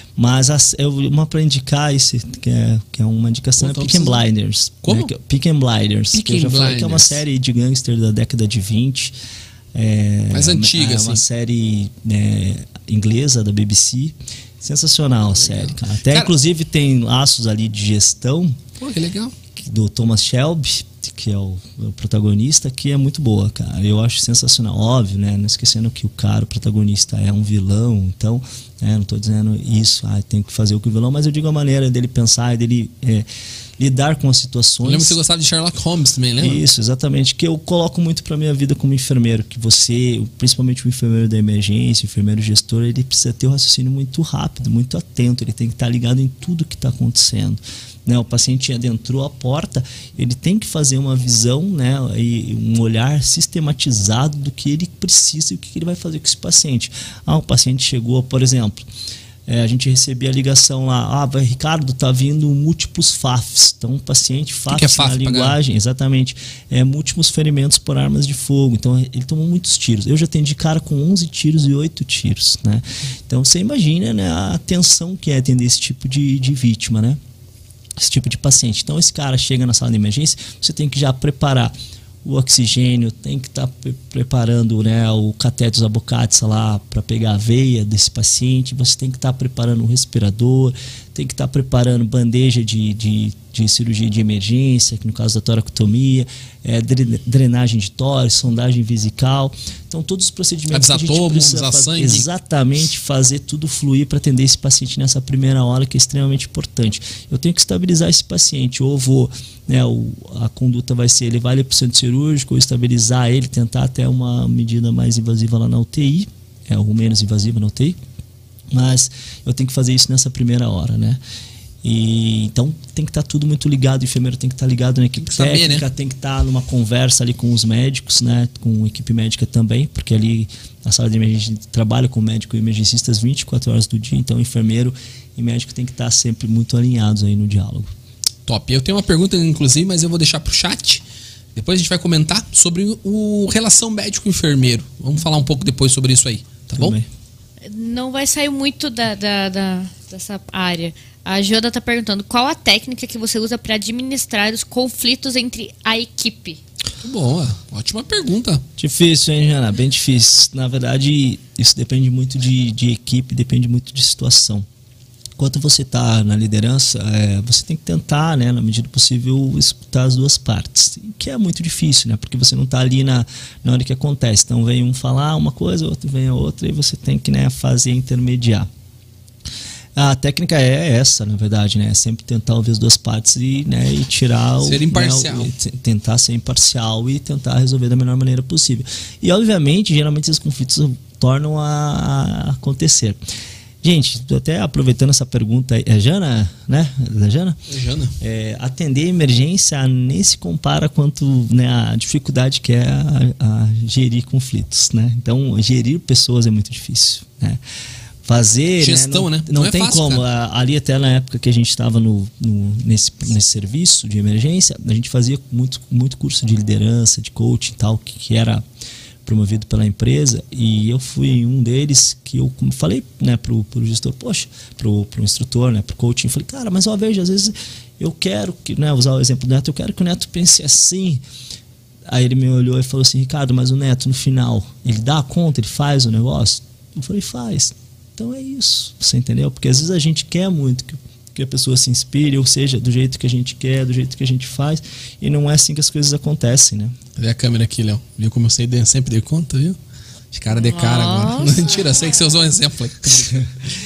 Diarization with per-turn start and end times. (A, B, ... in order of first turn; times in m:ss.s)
0:00.2-0:09.1 A
0:03.6-0:04.2 B
0:04.8-0:05.1 B
0:06.1-0:07.2 B
0:09.7-0:18.6 A
0:10.3-0:11.2 B
0:15.3-0:16.3 B
0:18.8-0:19.4 B
0:19.5-0:33.3 A
0:33.8-0:35.2 A
0:34.8-0:36.6 B
0:36.4-0:58.8 A
0:59.5-1:17.2 A
1:04.7-1:05.6 B
1:18.0-1:58.0 A
1:40.7-1:42.2 B
1:58.7-2:01.2 A
2:01.8-2:17.9 A
2:05.2-2:05.9 B
2:18.5-2:21.0 B
2:21.5-2:27.0 B
2:26.7-2:27.1 A
2:27.6-2:36.6 C
2:37.0-2:38.6 B
2:38.8-2:44.6 A
2:45.4-2:58.7 A
3:00.0-3:13.2 A
3:04.6-3:05.5 B
3:13.8-3:17.6 A
3:17.7-3:18.1 B
3:18.2-3:27.6 A
3:28.2-3:38.6 A
3:28.8-3:30.2 B
3:39.2-3:51.2 A
3:52.1-4:07.0 A
4:07.2-4:09.8 B
4:10.3-4:13.5 B
4:10.6-4:12.2 C